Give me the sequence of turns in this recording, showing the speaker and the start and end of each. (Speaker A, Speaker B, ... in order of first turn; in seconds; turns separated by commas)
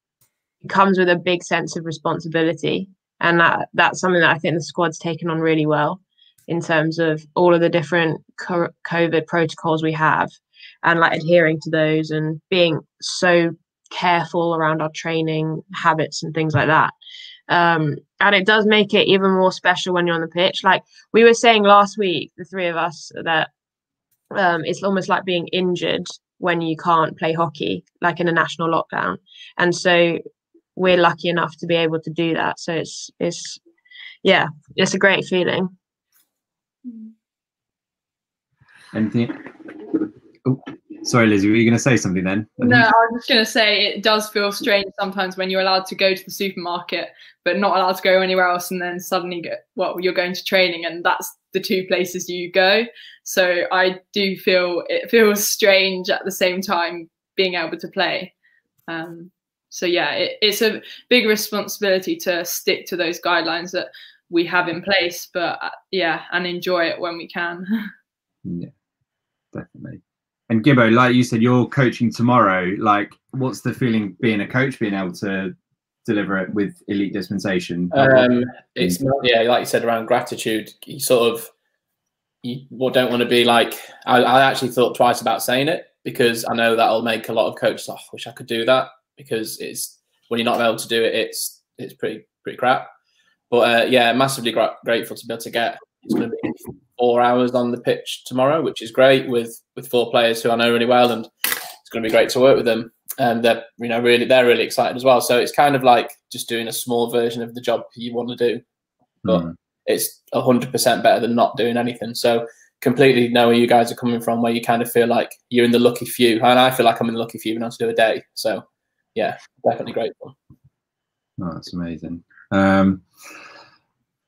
Speaker A: 0.6-16.9, Speaker A: 17.5-23.5, Speaker A: 24.3-30.2, Speaker A: 30.8-33.6, Speaker A: 34.2-35.7, Speaker B: 36.9-37.1, Speaker C: 38.9-39.5, Speaker C: 40.4-42.9, Speaker B: 42.6-58.3, Speaker B: 58.9-67.9, Speaker C: 68.5-68.7, Speaker C: 69.5-75.5, Speaker C: 76.0-78.3, Speaker D: 77.9-81.5, Speaker D: 82.4-92.9, Speaker D: 93.5-101.3, Speaker D: 101.8-108.6, Speaker C: 109.2-109.5, Speaker D: 109.2-120.3, Speaker C: 121.4-123.0